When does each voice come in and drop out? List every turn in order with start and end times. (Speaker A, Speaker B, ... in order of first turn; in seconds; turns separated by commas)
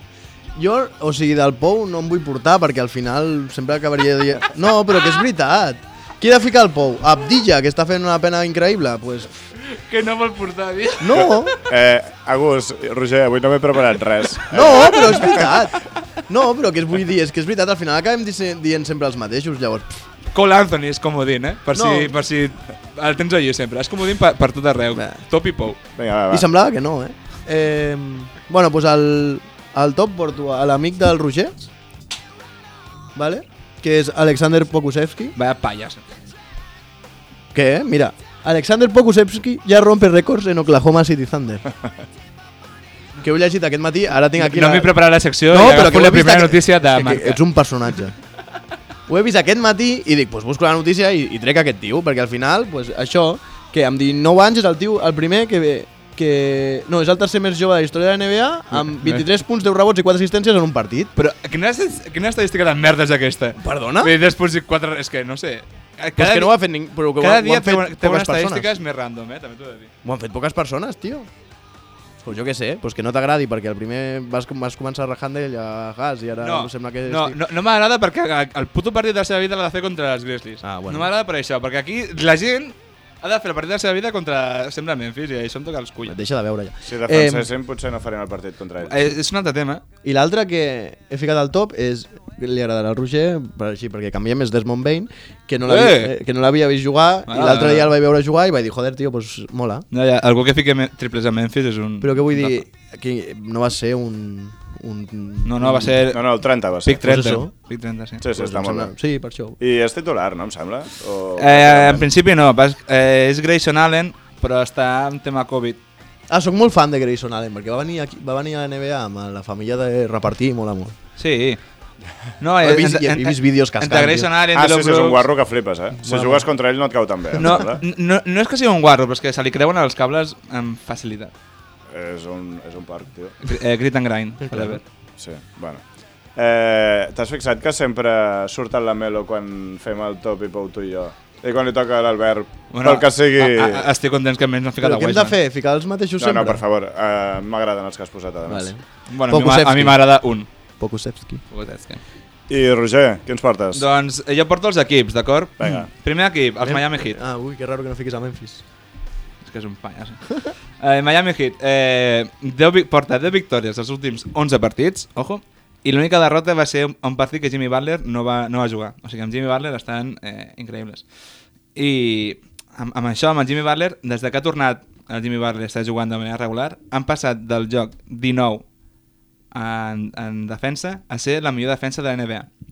Speaker A: 0.6-9.3, Speaker B: 9.6-11.5, Speaker A: 11.0-11.6, Speaker C: 11.6-15.5, Speaker A: 14.5-20.0, Speaker B: 20.3-25.8, Speaker A: 21.7-22.1, Speaker A: 24.9-25.2, Speaker C: 25.9-26.5, Speaker A: 26.3-31.7, Speaker A: 33.1-35.3, Speaker B: 35.4-36.2, Speaker A: 37.5-41.6, Speaker A: 43.2-44.9, Speaker B: 44.4-47.4, Speaker A: 45.5-48.1, Speaker A: 49.1-61.1, Speaker B: 58.7-59.2, Speaker B: 61.1-66.5, Speaker A: 63.6-64.1, Speaker A: 66.2-68.7, Speaker B: 67.2-69.9, Speaker A: 70.0-71.3, Speaker A: 72.2-77.4, Speaker B: 76.4-86.1, Speaker A: 80.6-81.1, Speaker A: 86.1-87.5, Speaker C: 86.8-89.1, Speaker B: 88.8-89.8, Speaker A: 90.0-99.8, Speaker B: 95.7-96.1, Speaker B: 97.3-97.9, Speaker B: 99.9-102.6, Speaker A: 102.0-106.0, Speaker B: 105.4-108.2, Speaker C: 106.1-107.0, Speaker A: 107.0-107.5, Speaker C: 108.2-108.9, Speaker A: 108.3-109.6, Speaker C: 109.6-112.1, Speaker B: 111.4-115.8, Speaker A: 116.3-120.9, Speaker B: 121.2-121.6, Speaker B: 122.4-125.3, Speaker A: 122.6-124.3, Speaker C: 124.5-127.8, Speaker A: 126.0-126.5, Speaker B: 127.4-131.3, Speaker C: 131.9-133.4, Speaker B: 133.4-134.8, Speaker A: 134.5-134.8, Speaker C: 135.2-135.8, Speaker C: 136.3-143.9, Speaker B: 142.7-145.3, Speaker A: 144.8-146.6, Speaker C: 146.2-148.7, Speaker A: 148.5-150.0, Speaker B: 149.1-150.5, Speaker A: 150.8-151.4, Speaker B: 151.5-152.0, Speaker C: 152.5-153.8, Speaker B: 153.7-157.2, Speaker C: 155.6-155.9, Speaker A: 156.6-158.6, Speaker B: 159.4-171.0, Speaker B: 171.7-178.6, Speaker B: 179.5-182.5